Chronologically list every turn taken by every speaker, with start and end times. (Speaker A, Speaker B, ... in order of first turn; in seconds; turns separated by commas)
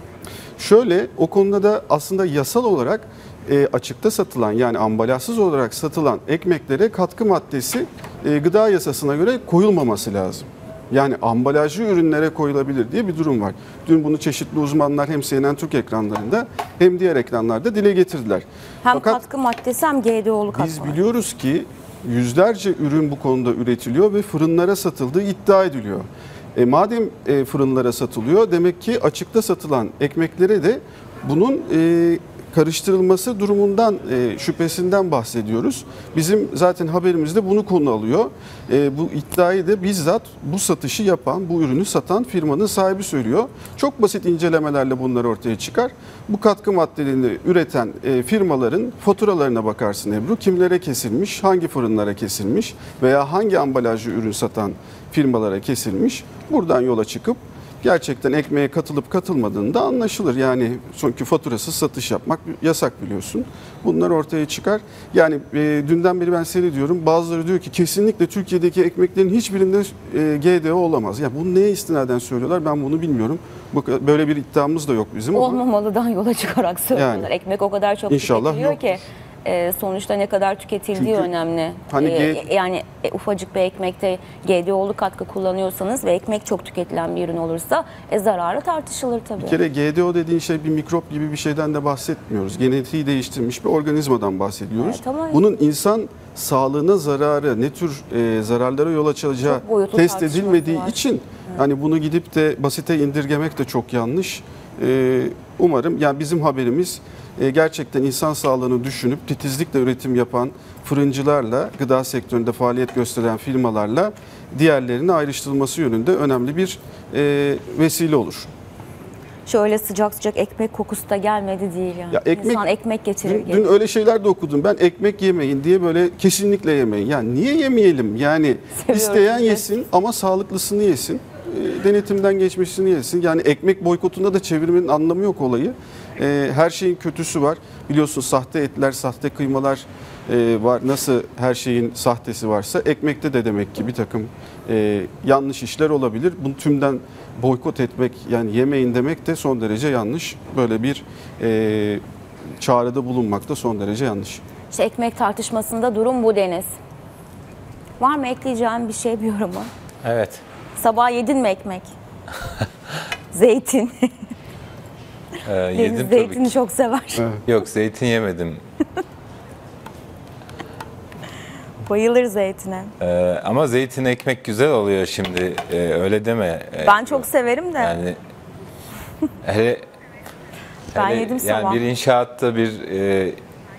Speaker A: 0.6-19.2, Speaker B: 18.8-21.0, Speaker A: 20.5-75.6, Speaker B: 75.3-89.6, Speaker A: 76.9-77.3, Speaker A: 78.1-79.0, Speaker A: 80.9-81.3, Speaker A: 81.9-82.5, Speaker A: 89.4-118.5, Speaker B: 94.8-95.4, Speaker B: 99.4-101.6, Speaker B: 119.5-123.7, Speaker A: 122.1-122.7, Speaker A: 123.2-152.0, Speaker B: 128.7-129.7, Speaker A: 152.6-154.4, Speaker B: 154.7-156.7, Speaker B: 158.0-159.7, Speaker C: 160.0-160.4, Speaker B: 160.8-161.9, Speaker B: 163.3-164.1, Speaker C: 165.4-166.5, Speaker B: 165.7-167.3, Speaker C: 167.4-168.6, Speaker B: 171.8-172.9, Speaker C: 173.0-177.3, Speaker B: 176.8-178.0, Speaker C: 177.8-178.2, Speaker C: 179.4-179.8, Speaker C: 180.9-183.4, Speaker B: 180.9-181.8